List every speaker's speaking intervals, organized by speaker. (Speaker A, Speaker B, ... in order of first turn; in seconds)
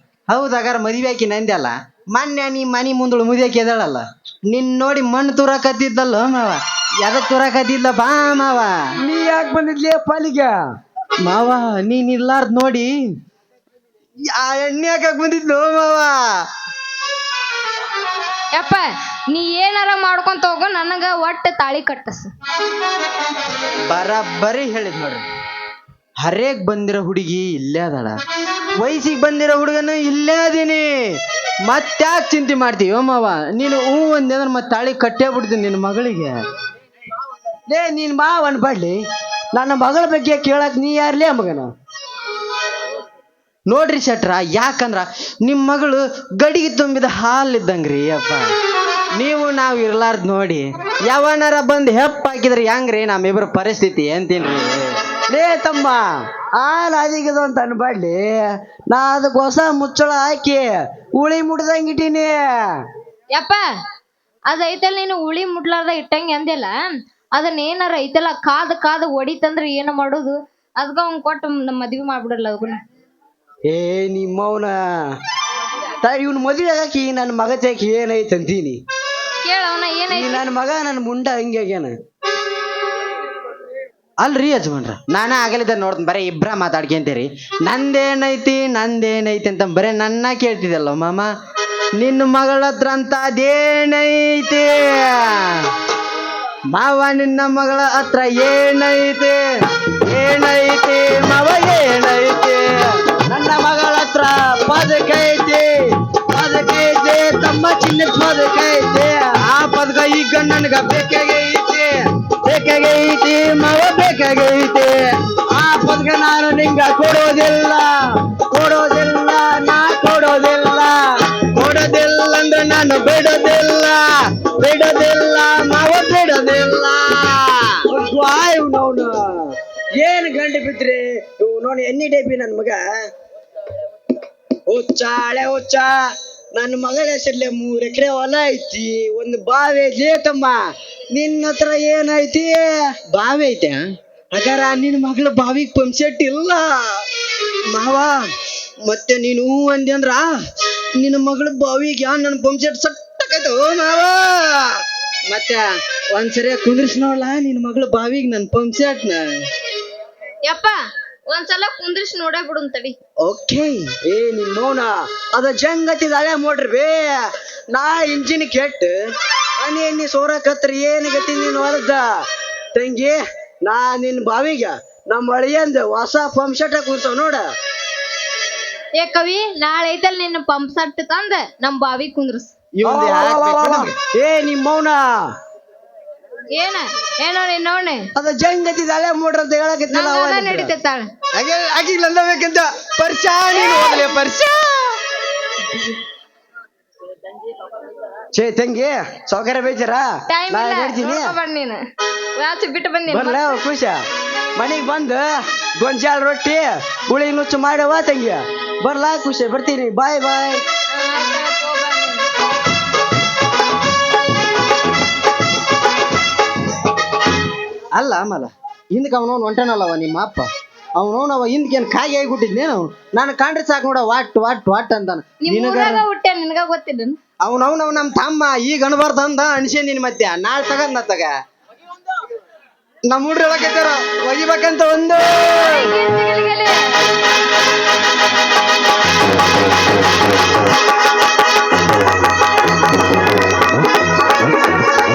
Speaker A: 0.3-8.7, 11.2-12.9, 14.5-16.1, 23.9-25.2, 26.2-28.1, 28.8-30.9, 31.7-36.4, 43.7-48.4, 49.2-54.9, 84.2-91.3, 92.0-94.8, 96.7-99.4, 100.0-102.7, 109.6-111.4, 112.5-114.9, 121.6-124.0, 124.6-127.5, 143.1-143.8, 145.4-145.9, 147.7-148.1, 148.9-150.3, 151.0-154.4, 155.3-155.6, 156.1-159.2, 182.8-183.9, 218.0-220.5, 221.0-226.0, 227.4-231.3, 233.1-235.2
Speaker B: 9.0-10.6, 37.7-39.0, 39.5-41.7, 55.3-56.0, 56.5-58.4, 58.9-62.4, 73.7-74.7, 76.0-78.8, 80.1-81.9, 103.3-105.7, 106.3-109.6, 110.9-111.8, 115.5-117.9, 118.5-121.0, 127.9-132.8, 134.7-135.9, 136.5-140.6, 141.1-142.6, 144.3-146.7, 163.3-167.0, 167.7-168.9, 169.6-172.0, 172.7-177.4, 182.8-185.1, 188.2-190.7, 191.4-194.5, 198.3-201.3, 203.1-204.0, 204.6-210.6
Speaker C: 18.5-22.3, 63.3-63.6, 64.5-66.7, 67.3-72.8, 79.4-80.4, 160.4-160.8, 161.3-163.0, 179.0-182.5, 186.5-188.1, 189.9-191.1, 193.5-194.4, 200.3-201.8, 202.4-203.6, 210.9-212.3, 225.4-227.2, 235.6-236.8